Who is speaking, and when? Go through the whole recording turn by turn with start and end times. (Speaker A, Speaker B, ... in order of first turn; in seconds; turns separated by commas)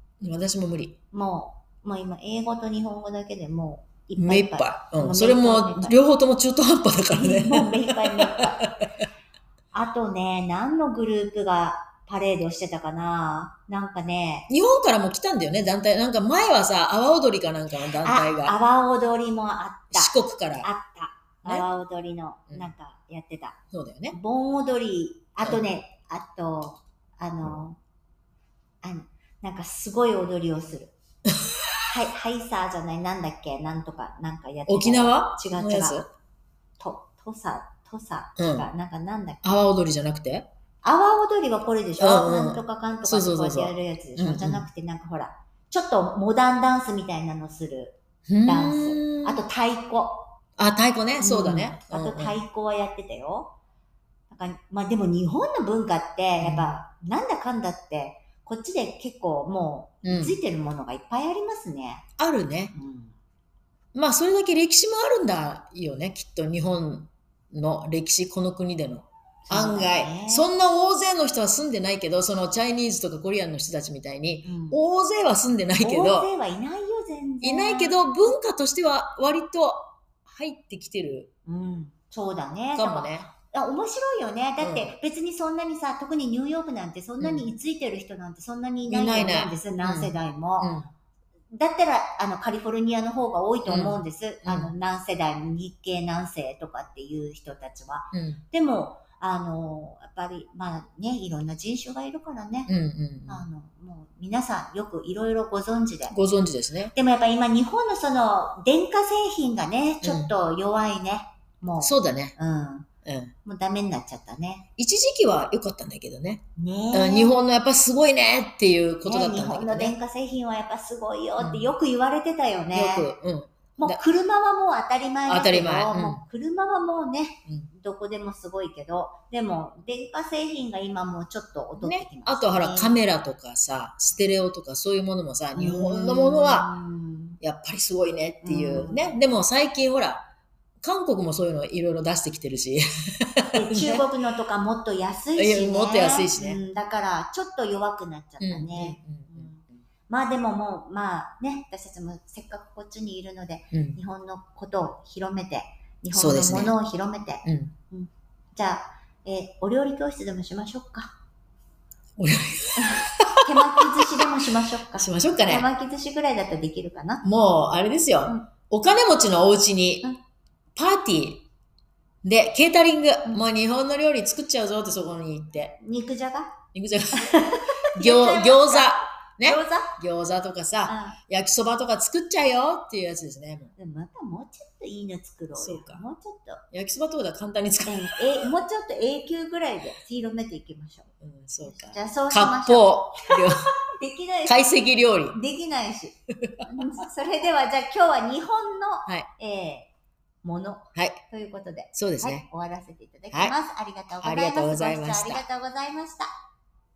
Speaker A: 0.2-1.0, Speaker B: 1.1-6.0, Speaker A: 4.2-8.9, Speaker B: 7.1-8.7, Speaker B: 9.7-14.5, Speaker A: 14.5-18.6, Speaker B: 17.8-23.6, Speaker A: 19.9-20.7, Speaker A: 23.7-24.2, Speaker B: 24.1-27.8, Speaker B: 28.8-30.9, Speaker B: 31.9-36.0, Speaker A: 34.7-36.1, Speaker B: 36.8-39.4, Speaker A: 38.4-38.7, Speaker A: 39.4-40.5, Speaker B: 40.8-50.3, Speaker A: 42.0-44.6, Speaker A: 48.3-49.4, Speaker A: 50.6-52.4, Speaker B: 51.2-53.6, Speaker B: 54.3-62.0, Speaker A: 56.4-56.7, Speaker A: 60.0-60.4, Speaker A: 62.2-62.8, Speaker B: 62.7-63.1, Speaker A: 64.0-76.3, Speaker B: 69.5-70.5, Speaker B: 74.4-74.8, Speaker B: 75.8-78.0, Speaker A: 77.4-81.3, Speaker B: 81.5-90.7, Speaker A: 82.8-83.3, Speaker A: 84.6-85.0, Speaker A: 87.2-87.5, Speaker A: 88.9-90.9, Speaker B: 91.5-102.7, Speaker A: 93.7-94.7, Speaker A: 98.1-98.4, Speaker A: 102.7-103.5, Speaker B: 103.3-106.2, Speaker A: 106.1-106.9, Speaker B: 106.9-112.9, Speaker A: 110.0-110.3, Speaker A: 111.8-112.4, Speaker A: 113.0-113.3, Speaker B: 113.4-114.7, Speaker A: 114.8-116.4, Speaker B: 116.6-117.3, Speaker A: 116.9-119.9, Speaker B: 119.0-123.1, Speaker A: 121.4-121.7, Speaker A: 122.7-124.0, Speaker B: 123.8-133.0, Speaker A: 125.3-126.2, Speaker A: 131.8-136.7, Speaker B: 135.6-137.4, Speaker A: 137.4-140.3, Speaker B: 138.4-139.2, Speaker A: 140.8-144.1, Speaker B: 143.5-161.1, Speaker A: 145.4-146.6, Speaker A: 148.4-149.5, Speaker A: 153.7-154.0, Speaker A: 156.1-156.7, Speaker A: 157.4-157.8, Speaker A: 162.2-164.3, Speaker B: 162.8-167.2, Speaker A: 164.9-165.7, Speaker A: 167.2-170.1, Speaker A: 170.8-171.5, Speaker A: 172.2-175.8, Speaker B: 175.8-176.6, Speaker A: 176.7-183.7, Speaker B: 177.2-180.0, Speaker B: 180.9-181.2, Speaker B: 183.8-186.6, Speaker A: 185.6-186.0, Speaker A: 186.7-188.5, Speaker B: 187.9-191.1, Speaker A: 191.2-193.7, Speaker B: 191.6-194.8, Speaker A: 194.4-195.4, Speaker B: 195.3-199.9, Speaker B: 200.4-206.3, Speaker A: 200.9-201.2, Speaker A: 201.9-202.4, Speaker A: 204.2-205.4